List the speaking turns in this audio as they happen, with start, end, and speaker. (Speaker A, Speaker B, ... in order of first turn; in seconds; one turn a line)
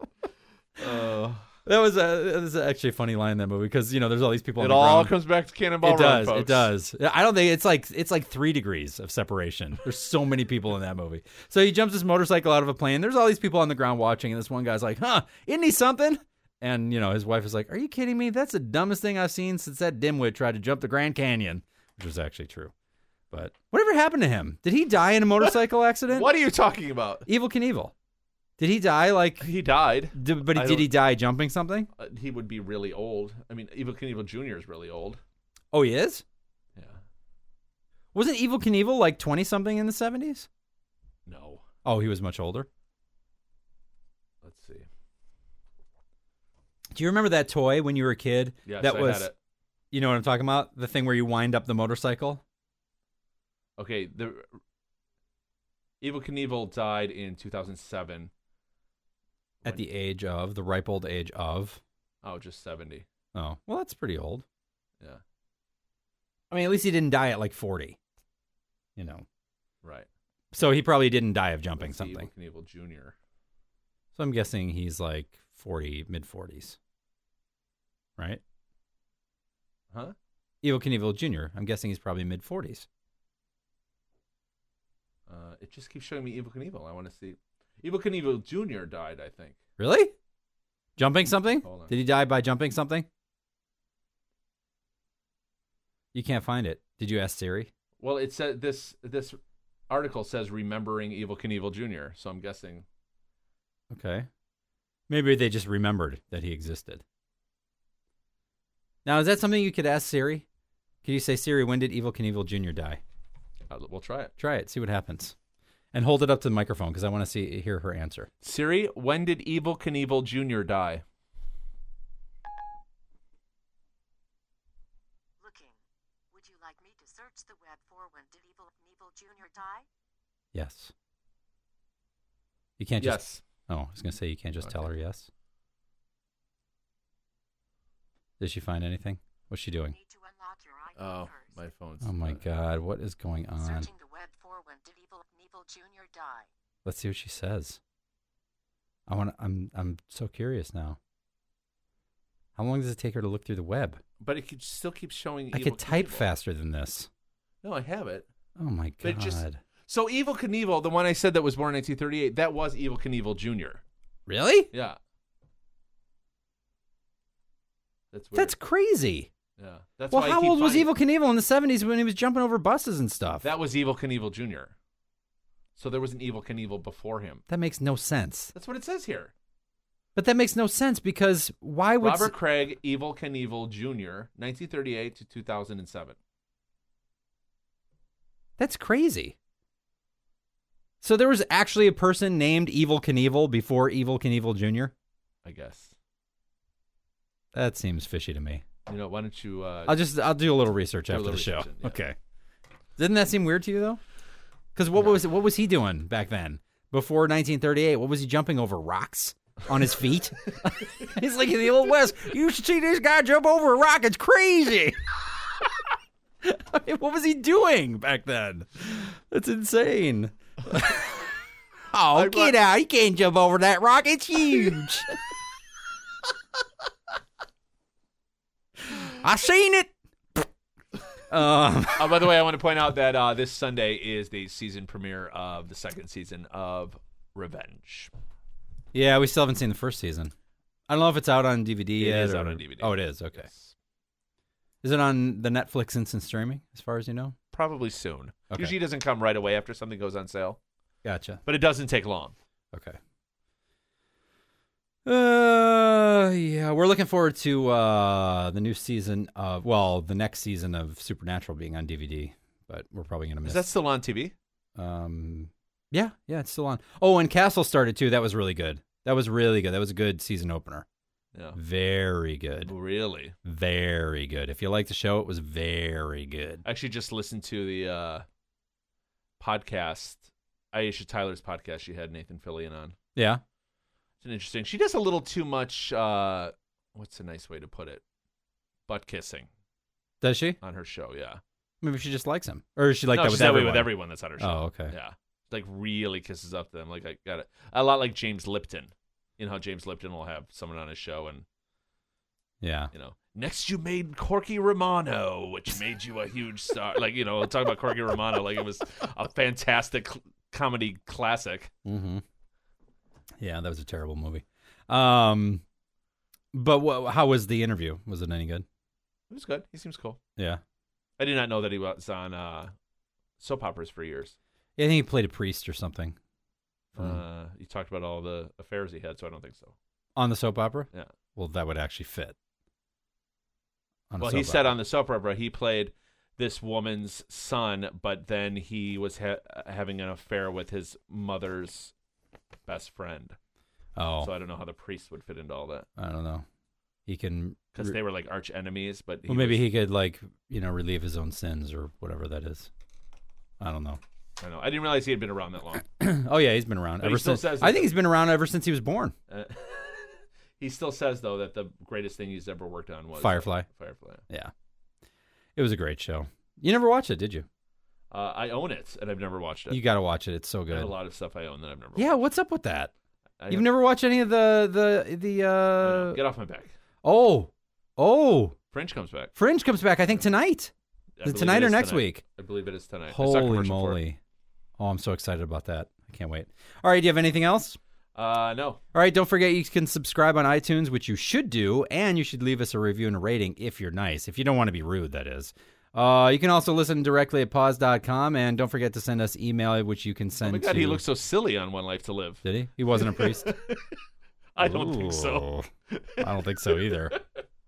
Speaker A: 0.8-1.5
Speaker B: 1.6-5.2
Speaker A: 4.6-6.7
Speaker B: 5.8-22.7
Speaker B: 23.3-26.3
Speaker A: 26.1-27.3
Speaker B: 27.3-27.9
Speaker B: 28.6-29.4
Speaker A: 29.4-30.9
Speaker B: 30.1-31.9
Speaker A: 31.9-35.2
Speaker B: 35.7-36.2
Speaker A: 36.8-37.0
Speaker B: 38.1-40.5
Speaker A: 41.2-41.6
Speaker B: 41.8-42.7
Speaker A: 44.4-44.9
Speaker B: 46.9-49.3
Speaker A: 48.6-49.4
Speaker B: 49.9-52.4
Speaker A: 53.8-54.5
Speaker A: 56.0-58.3
Speaker B: 59.6-61.8
Speaker A: 62.2-63.0
Speaker B: 63.3-64.4
Speaker B: 66.5-68.0
Speaker B: 69.0-69.2
Speaker A: 69.8-70.1
Speaker B: 70.5-72.3
Speaker A: 71.8-73.1
Speaker B: 74.2-76.8
Speaker B: 80.6-82.9
Speaker A: 85.3-89.6
Speaker B: 89.8-90.1
Speaker B: 91.0-93.1
Speaker A: 91.6-91.9
Speaker B: 96.1-97.7
Speaker A: 98.0-99.4
Speaker A: 99.9-102.8
Speaker B: 103.9-104.3
Speaker B: 105.1-107.0
Speaker B: 109.0-110.5
Speaker B: 111.0-113.0
Speaker A: 113.7-114.3
Speaker B: 114.4-115.3
Speaker B: 115.9-118.3
Speaker A: 118.4-121.0
Speaker C: 125.4-125.8
Speaker C: 126.3-129.8
Speaker B: 130.5-130.9
Speaker B: 132.8-135.3
Speaker A: 133.0-133.4
Speaker A: 134.6-134.9
Speaker B: 138.4-139.9
Speaker C: 139.7-141.6
Speaker A: 141.0-142.4
Speaker B: 142.0-143.9
Speaker C: 143.6-146.5
Speaker B: 146.8-147.8
Speaker B: 149.1-151.0
Speaker B: 152.6-154.0
Speaker A: 154.2-156.3
Speaker B: 155.5-157.1
Speaker A: 157.6-158.3
Speaker B: 158.6-159.6
Speaker A: 159.0-163.8
Speaker B: 164.3-164.7
Speaker A: 164.7-165.0
Speaker A: 168.1-168.6
Speaker B: 168.3-169.3
Speaker A: 169.6-170.9
Speaker B: 170.1-173.5
Speaker A: 173.4-174.7
Speaker A: 175.8-177.4
Speaker B: 177.5-178.5
Speaker A: 178.5-179.3
Speaker B: 180.1-182.3
Speaker A: 182.0-186.2
Speaker B: 188.6-189.3
Speaker B: 191.0-194.9
Speaker A: 195.4-195.9
Speaker B: 197.5-198.6
Speaker A: 198.9-200.0
Speaker B: 199.9-202.2
Speaker A: 201.1-202.0
Speaker B: 203.0-204.0
Speaker B: 204.7-215.0
Speaker B: 216.4-221.3
Speaker B: 221.9-225.1
Speaker A: 222.1-222.5
Speaker B: 228.9-230.5
Speaker B: 231.3-232.3
Speaker A: 231.9-238.1
Speaker B: 238.9-240.3
Speaker B: 240.9-243.5
Speaker A: 242.0-243.7
Speaker B: 244.8-247.3
Speaker A: 247.5-250.6
Speaker B: 251.0-251.4
Speaker A: 251.4-252.3
Speaker B: 252.7-253.0
Speaker B: 255.0-263.6
Speaker A: 263.4-264.3
Speaker B: 264.8-270.9
Speaker A: 271.3-271.6
Speaker B: 271.5-272.7
Speaker A: 272.6-273.4
Speaker B: 273.4-276.6
Speaker A: 276.6-278.2
Speaker A: 279.4-282.9
Speaker B: 283.1-283.4
Speaker A: 284.2-288.0
Speaker A: 288.9-289.5
Speaker B: 290.2-290.6
Speaker A: 290.6-291.4
Speaker B: 291.8-294.9
Speaker A: 293.1-301.4
Speaker B: 302.6-302.9
Speaker A: 302.9-311.7
Speaker B: 311.8-312.2
Speaker B: 313.4-315.6
Speaker B: 316.5-318.6
Speaker A: 319.3-320.2
Speaker B: 320.4-320.6
Speaker A: 321.2-322.7
Speaker A: 323.4-324.4
Speaker B: 324.8-326.2
Speaker A: 326.9-329.7
Speaker B: 330.1-332.4
Speaker B: 334.1-334.8
Speaker A: 334.2-341.9
Speaker A: 342.7-343.4
Speaker B: 343.9-344.3
Speaker A: 344.2-345.9
Speaker B: 346.0-346.4
Speaker B: 347.1-347.9
Speaker A: 347.7-349.6
Speaker B: 349.3-352.7
Speaker B: 353.6-354.0
Speaker A: 354.4-355.9
Speaker B: 355.8-359.1
Speaker A: 357.0-357.9
Speaker A: 359.3-364.2
Speaker B: 363.2-363.7
Speaker B: 365.6-367.4
Speaker A: 368.1-369.8
Speaker B: 369.7-370.9
Speaker A: 370.7-372.2
Speaker B: 371.9-372.9
Speaker A: 373.4-373.7
Speaker B: 373.5-376.2
Speaker A: 375.8-376.7
Speaker B: 377.0-378.6
Speaker A: 378.7-379.3
Speaker B: 379.4-380.7
Speaker A: 381.2-384.0
Speaker B: 381.2-382.2
Speaker B: 383.1-384.2
Speaker B: 384.8-387.8
Speaker A: 388.1-388.8
Speaker B: 388.9-401.0
Speaker A: 400.4-404.0
Speaker B: 402.4-403.5
Speaker A: 404.6-407.2
Speaker B: 404.6-407.2